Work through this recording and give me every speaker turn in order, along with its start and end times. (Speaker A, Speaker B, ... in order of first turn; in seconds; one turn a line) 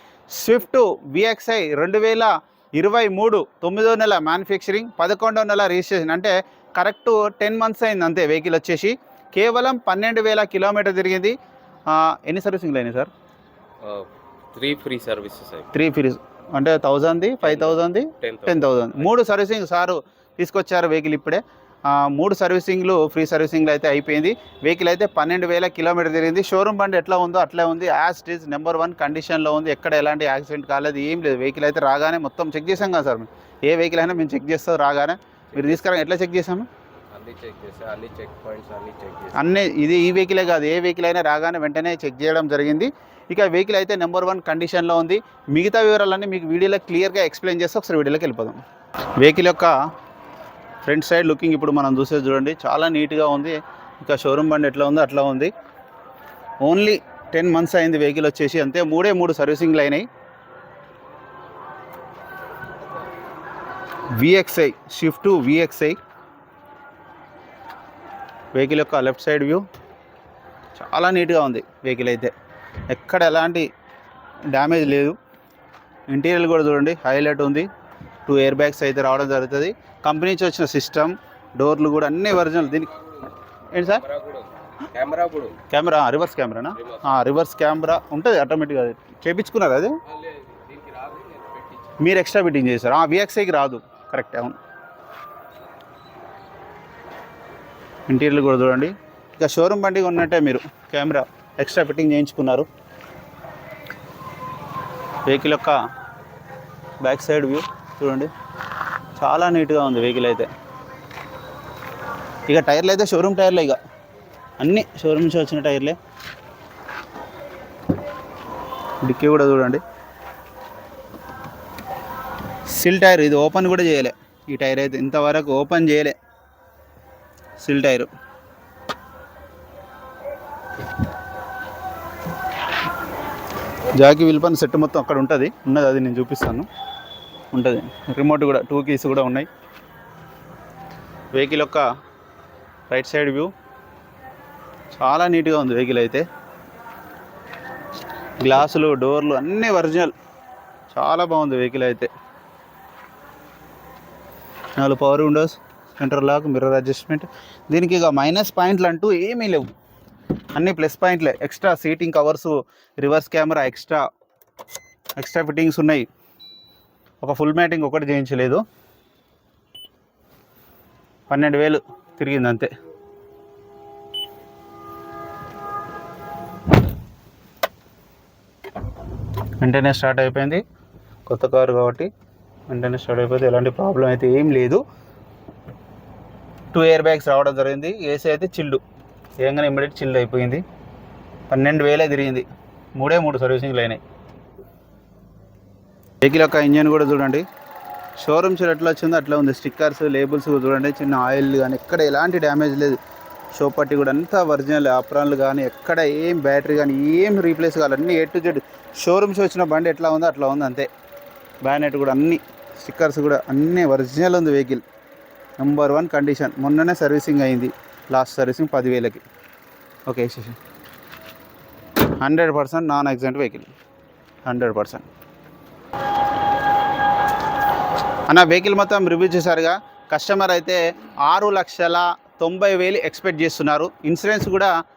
Speaker A: 0.3-11.3
Speaker A: 11.9-13.1
Speaker B: 13.8-15.7
Speaker A: 15.7-36.7
Speaker B: 17.4-18.7
Speaker B: 35.5-36.0
Speaker B: 37.1-39.5
Speaker A: 39.4-48.6
Speaker A: 49.2-49.7
Speaker A: 50.9-55.5
Speaker A: 56.6-60.0
Speaker A: 64.2-66.0
Speaker A: 68.5-69.7
Speaker A: 70.8-72.3
Speaker A: 72.9-73.7
Speaker A: 74.5-75.2
Speaker A: 76.1-77.7
Speaker A: 78.2-82.9
Speaker B: 82.8-85.6
Speaker A: 83.7-84.0
Speaker A: 85.7-89.9
Speaker B: 86.8-87.2
Speaker B: 90.1-92.0
Speaker A: 92.0-94.6
Speaker A: 98.1-102.7
Speaker A: 105.3-105.8
Speaker A: 107.0-108.3
Speaker A: 109.2-110.5
Speaker A: 112.5-113.8
Speaker A: 114.6-116.0
Speaker A: 119.0-119.8
Speaker A: 122.7-126.1
Speaker A: 127.6-128.1
Speaker A: 133.9-136.7
Speaker A: 137.5-139.5
Speaker A: 141.3-141.8
Speaker A: 142.9-143.5
Speaker A: 145.0-146.2
Speaker A: 148.4-150.1
Speaker A: 150.9-152.1
Speaker A: 154.8-159.7
Speaker A: 160.5-164.0
Speaker A: 165.2-166.1
Speaker A: 167.2-168.6
Speaker A: 171.3-172.7
Speaker A: 179.6-180.6
Speaker A: 181.3-182.1
Speaker A: 182.7-184.8
Speaker A: 186.7-188.8
Speaker A: 189.4-190.6
Speaker A: 191.5-194.0
Speaker A: 196.2-197.4
Speaker A: 198.2-203.0
Speaker A: 203.5-210.9
Speaker A: 211.6-214.8
Speaker A: 215.6-219.2
Speaker A: 220.1-220.6
Speaker A: 222.2-223.7
Speaker A: 224.4-225.1
Speaker A: 228.3-234.7